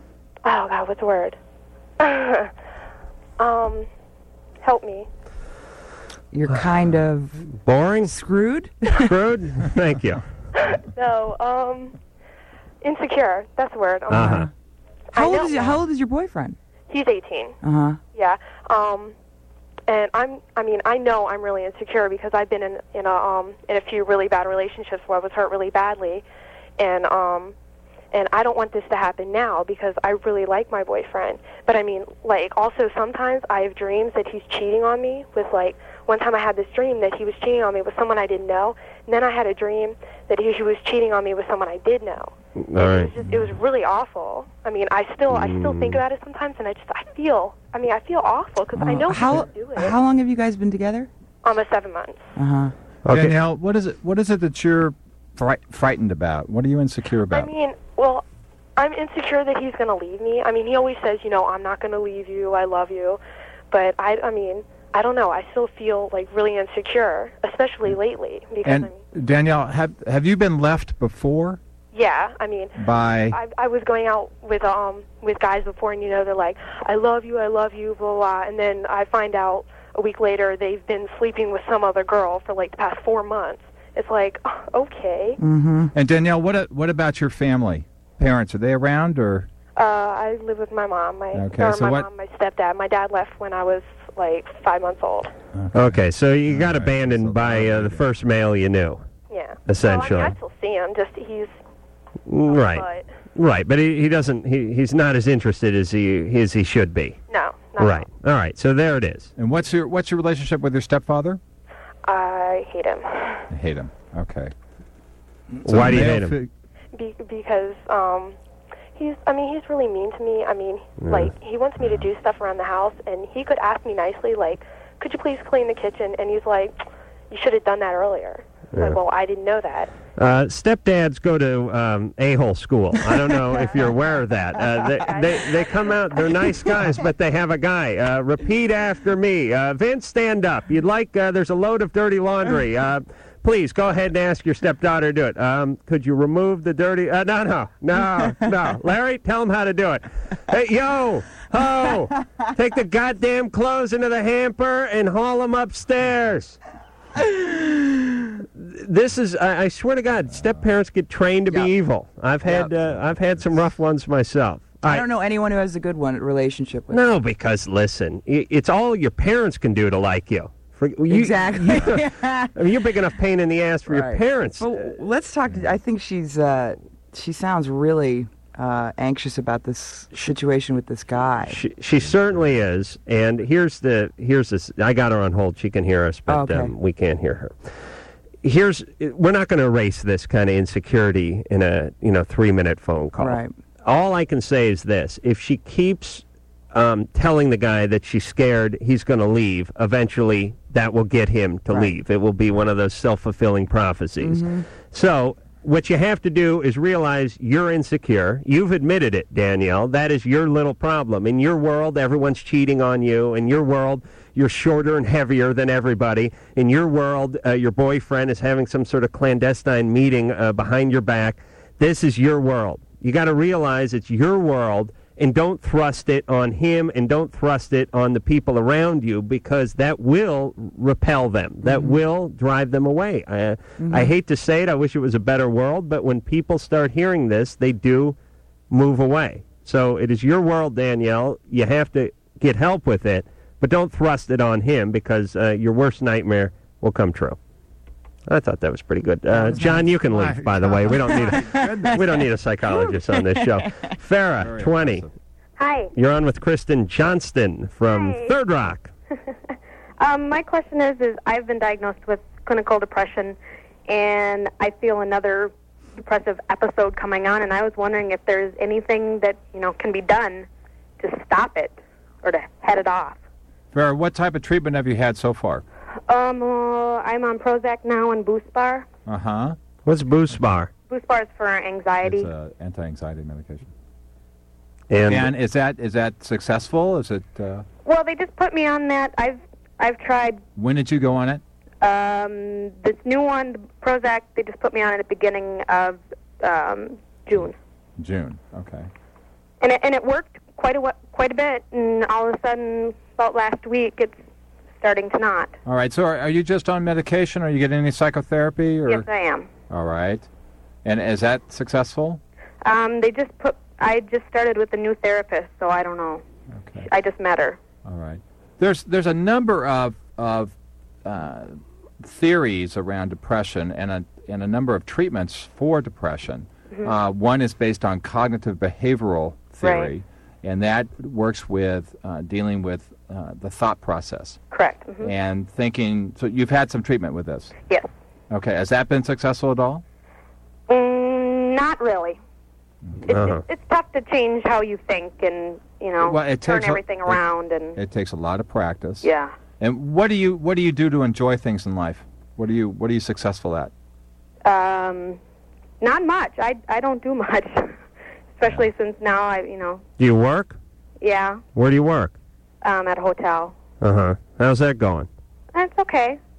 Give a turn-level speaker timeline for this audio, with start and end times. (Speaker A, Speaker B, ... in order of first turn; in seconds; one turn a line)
Speaker A: 0.4-1.4
Speaker A: 2.0-2.5
Speaker A: 3.4-3.9
Speaker A: 4.6-5.1
Speaker B: 6.3-7.4
Speaker C: 7.6-8.1
Speaker B: 8.1-9.1
Speaker C: 9.0-10.2
Speaker A: 10.6-11.9
Speaker A: 12.8-14.4
Speaker C: 14.1-14.5
Speaker B: 14.1-14.5
Speaker A: 15.1-15.8
Speaker B: 15.2-16.6
Speaker A: 16.9-17.6
Speaker B: 17.6-18.0
Speaker A: 18.1-19.1
Speaker A: 19.9-26.2
Speaker A: 26.8-27.5
Speaker A: 28.1-49.9
Speaker C: 42.6-43.1
Speaker C: 45.3-46.0
Speaker B: 48.8-51.1
Speaker A: 51.4-52.2
Speaker B: 52.4-52.7
Speaker C: 53.0-53.4
Speaker D: 53.1-57.5
Speaker A: 57.3-58.2
Speaker A: 58.8-63.2
Speaker A: 63.7-69.0
Speaker D: 68.6-71.6
Speaker A: 71.9-72.8
Speaker D: 72.8-73.4
Speaker A: 73.3-85.4
Speaker B: 85.4-85.9
Speaker D: 85.9-89.5
Speaker A: 89.8-95.3
Speaker D: 91.3-92.1
Speaker D: 95.5-98.1
Speaker C: 95.7-99.0
Speaker A: 99.3-101.5
Speaker C: 99.7-100.3
Speaker C: 102.3-102.8
Speaker A: 102.5-103.0
Speaker C: 103.3-107.2
Speaker A: 107.3-108.1
Speaker C: 107.8-109.3
Speaker D: 109.4-111.4
Speaker A: 112.0-113.5
Speaker D: 113.5-114.5
Speaker C: 115.6-116.4
Speaker D: 115.6-116.5
Speaker A: 116.9-118.4
Speaker A: 118.9-126.8
Speaker C: 121.0-121.3
Speaker A: 127.3-129.9
Speaker C: 130.2-156.6
Speaker A: 134.9-136.2
Speaker B: 148.2-148.5
Speaker B: 157.2-157.9
Speaker C: 158.6-165.1
Speaker D: 160.3-160.6
Speaker B: 162.4-162.7
Speaker B: 164.8-167.0
Speaker C: 166.9-174.9
Speaker B: 171.1-172.5
Speaker B: 173.9-181.6
Speaker C: 181.5-187.5
Speaker D: 182.1-182.3
Speaker B: 186.3-186.7
Speaker C: 188.4-238.2
Speaker B: 193.2-193.5
Speaker B: 201.7-201.9
Speaker B: 204.2-204.7
Speaker B: 231.6-231.9
Speaker B: 233.8-234.1
Speaker C: 238.7-247.4
Speaker C: 248.3-255.0
Speaker D: 249.3-252.2
Speaker B: 252.7-253.6
Speaker D: 254.4-255.1
Speaker E: 255.6-255.9
Speaker C: 255.9-258.9
Speaker E: 257.9-258.3
Speaker E: 260.0-270.5
Speaker E: 271.0-273.2
Speaker D: 273.7-275.6
Speaker E: 276.1-278.9
Speaker D: 279.1-279.6
Speaker C: 279.8-280.7
Speaker E: 280.9-282.3
Speaker D: 282.0-283.7
Speaker C: 284.9-285.3
Speaker D: 285.1-287.6
Speaker E: 287.8-290.4
Speaker D: 290.6-291.4
Speaker E: 291.8-297.5
Speaker D: 298.0-298.9
Speaker E: 299.6-304.2
Speaker E: 304.8-305.5
Speaker D: 305.6-309.1
Speaker E: 308.9-309.5
Speaker D: 309.7-310.3
Speaker D: 310.8-312.2
Speaker E: 312.6-316.2
Speaker D: 316.5-316.9
Speaker E: 316.9-317.6
Speaker D: 317.8-334.4
Speaker E: 329.6-329.9
Speaker E: 334.5-335.1
Speaker D: 335.0-337.5
Speaker D: 338.3-339.8
Speaker E: 340.7-342.2
Speaker D: 342.9-343.1
Speaker C: 343.1-343.4
Speaker E: 343.1-347.8
Speaker D: 346.0-347.2
Speaker D: 347.8-349.1
Speaker E: 349.0-349.3
Speaker D: 349.6-353.7
Speaker E: 354.4-355.2
Speaker E: 355.8-357.7
Speaker E: 358.4-359.8
Speaker C: 360.0-360.6
Speaker E: 361.0-361.4
Speaker C: 361.5-362.1
Speaker E: 362.6-363.6
Speaker C: 363.8-365.1
Speaker E: 365.5-366.2